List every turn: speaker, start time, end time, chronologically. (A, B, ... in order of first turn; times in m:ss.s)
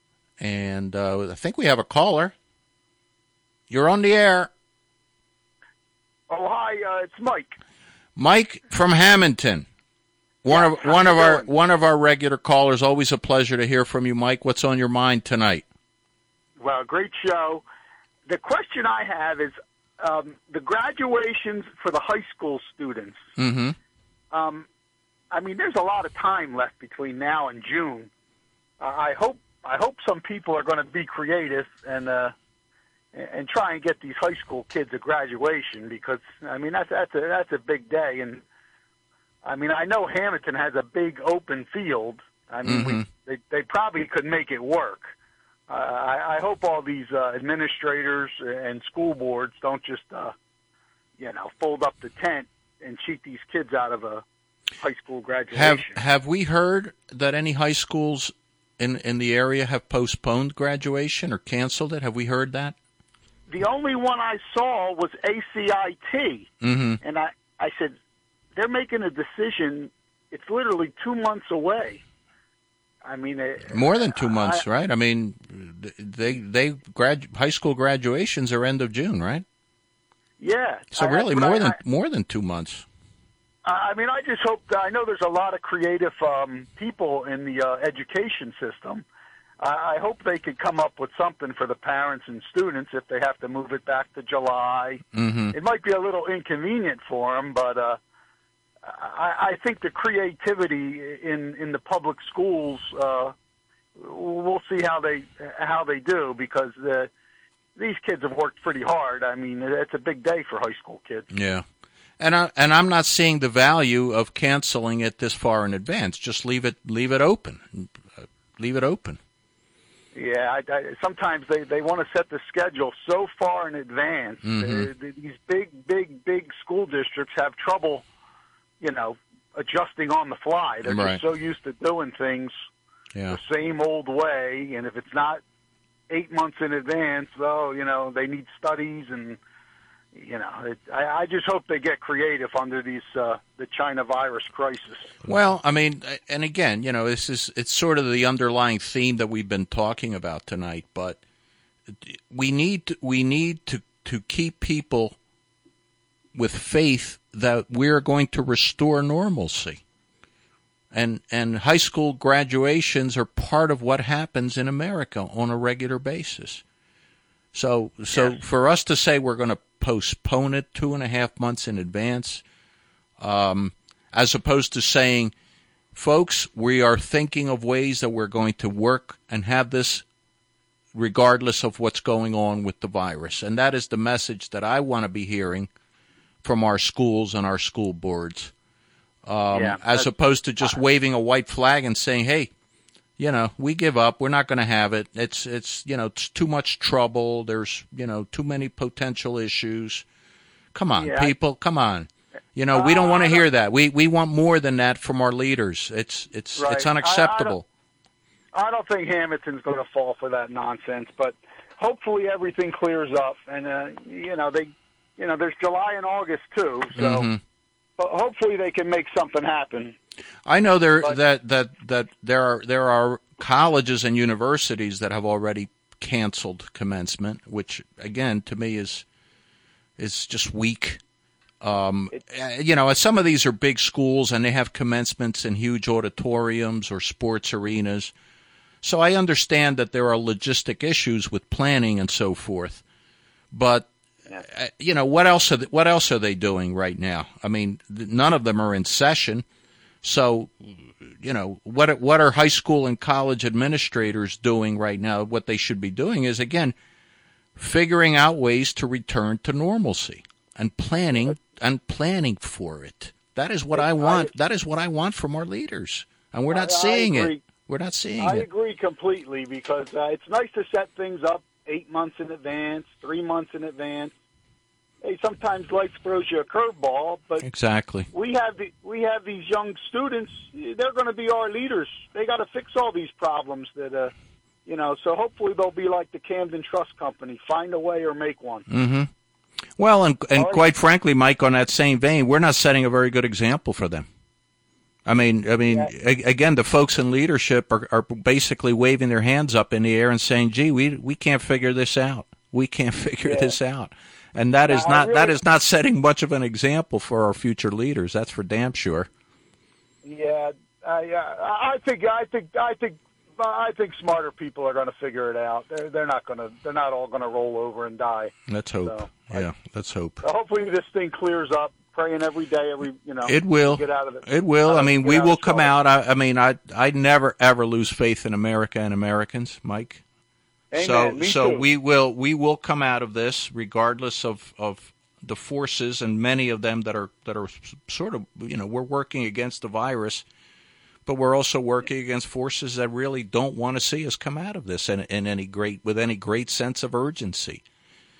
0:00.4-0:02.3 A
0:03.7-0:04.5 A
0:06.3-0:07.6 B
0:08.2-0:09.7 A
0:10.4-0:15.6 A
0:10.5-0:11.5 B
0:16.6-0:17.6 B
0:18.3-0:23.2 B
0:23.4-0:23.8 A
0:24.3-0:24.7 B
0:25.3-0:28.1 B
0:28.8-0:32.3 B
0:33.1-0:38.4 B
0:39.4-0:45.1 B
0:42.6-0:43.1 A
0:45.7-0:50.3 B
0:51.2-0:54.2 B
0:54.8-0:56.0 B
0:55.5-1:02.8 A
1:03.5-1:06.5 B
1:06.6-1:07.0 A
1:07.0-1:08.0 B
1:08.6-1:12.0 B
1:13.0-1:14.6 B
1:13.6-1:19.4 A
1:20.4-1:21.8 B
1:20.9-1:22.9 A
1:23.6-1:29.0 B
1:29.6-1:38.0 B
1:35.1-1:35.6 A
1:38.8-1:43.3 B
1:44.0-1:47.1 B
1:47.8-1:51.3 B
1:51.3-1:51.7 A
1:52.2-1:59.2 A
2:00.1-2:08.1 B
2:04.4-2:04.9 A
2:08.8-2:12.5 B
2:10.8-2:11.2 A
2:13.1-2:13.4 A
2:13.3-2:15.4 B
2:16.1-2:19.4 B
2:20.1-2:25.2 B
2:25.2-2:31.2 A
2:31.9-2:35.2 A
2:36.3-2:39.8 A
2:40.9-2:46.6 A
2:47.5-2:52.4 A
2:53.2-2:55.3 A
2:55.9-3:00.0 A
3:00.9-3:05.7 A
3:06.4-3:08.5 A
3:09.2-3:12.5 A
3:09.5-3:10.1 B
3:13.2-3:20.1 A
3:20.7-3:27.6 A
3:21.0-3:21.3 B
3:22.7-3:23.4 B
3:26.6-3:27.6 B
3:28.5-3:37.3 B
3:37.0-3:37.4 A
3:38.0-3:40.0 B
3:40.5-3:49.0 A
3:50.0-3:51.0 A
3:51.6-3:58.1 A
3:58.8-4:02.8 A
4:03.5-4:09.4 A
4:10.0-4:16.8 A
4:17.6-4:28.5 A
4:23.7-4:24.3 B
4:26.5-4:27.4 B
4:28.2-4:34.1 B
4:35.0-4:37.5 B
4:37.4-4:38.1 A
4:38.1-4:44.1 B
4:44.7-4:48.7 B
4:48.7-4:49.1 A
4:49.8-4:54.1 A
4:50.4-4:50.6 B
4:55.1-5:09.1 A
5:03.2-5:03.5 B
5:04.7-5:05.4 B
5:10.0-5:19.4 B
5:18.5-5:20.2 A
5:20.2-5:25.7 B
5:23.2-5:30.0 A
5:30.7-5:31.6 B
5:30.7-5:40.2 A
5:41.1-5:47.6 A